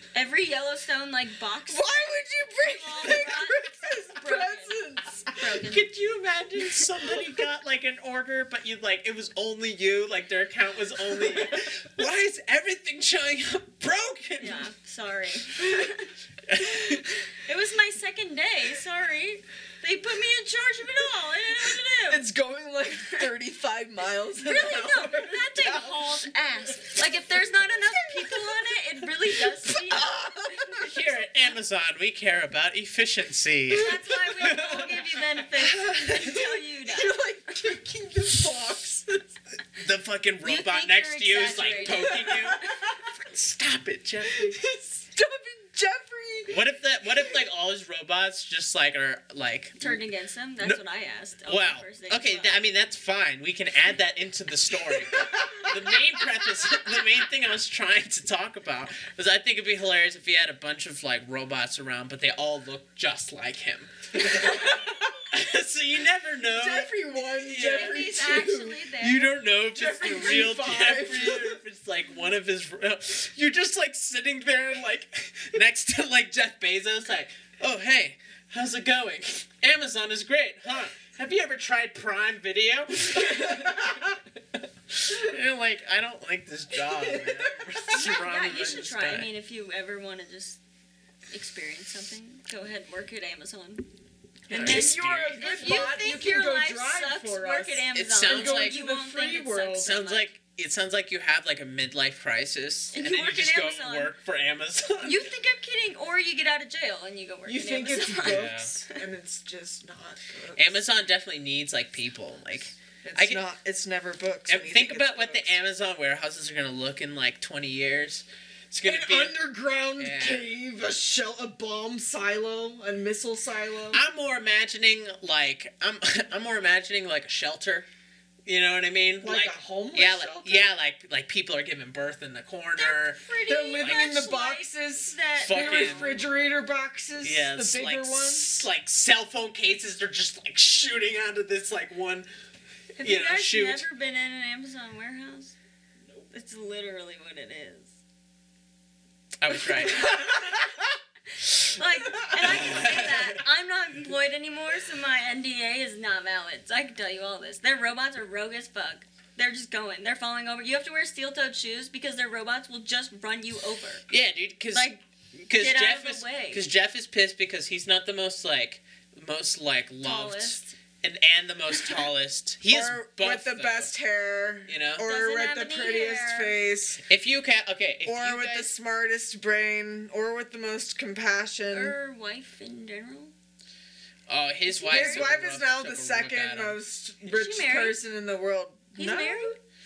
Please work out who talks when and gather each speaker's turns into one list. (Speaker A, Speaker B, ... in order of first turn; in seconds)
Speaker A: 0.1-5.8, 14.4-16.1, 17.3-22.3, 24.4-30.8, 33.7-37.1, 40.4-42.4, 49.8-52.6, 67.6-69.4, 87.9-90.6, 91.3-93.9, 94.5-100.3, 102.9-104.1, 105.0-109.0, 132.8-136.2, 143.0-145.6, 146.3-147.9, 151.7-164.1, 164.7-166.6, 170.0-170.8, 175.0-176.6, 181.7-183.3, 184.7-185.3, 187.2-188.0, 189.0-189.6
Speaker B: 1.7-5.4, 6.9-7.4, 11.2-11.5, 22.1-26.0, 28.0-28.6, 29.3-30.9, 34.4-34.8, 35.6-39.3, 41.9-42.8, 44.3-46.6, 54.9-55.7, 64.5-65.0, 66.4-68.8, 69.7-71.6, 83.1-84.0, 86.7-87.8, 94.5-100.0, 107.5-110.8, 113.0-115.6, 118.8-124.0, 129.2-130.7, 133.5-138.7, 172.7-177.0, 178.0-181.9, 184.8-189.6
Speaker C: 5.5-14.6, 16.5-17.1, 30.8-35.1, 39.8-44.6, 46.5-50.0, 51.5-68.5, 69.0-84.2, 84.9-89.3, 94.5-96.0, 97.9-98.8, 99.7-105.2, 108.2-108.7, 110.6-113.4, 114.5-119.4, 120.0-120.5, 123.9-127.9, 128.4-133.2, 133.8-134.2, 135.4-136.2, 137.2-142.3, 143.0-143.8, 149.4-150.7, 152.2-153.4, 164.1-173.9, 174.7-175.1, 177.1-178.7, 184.3-186.8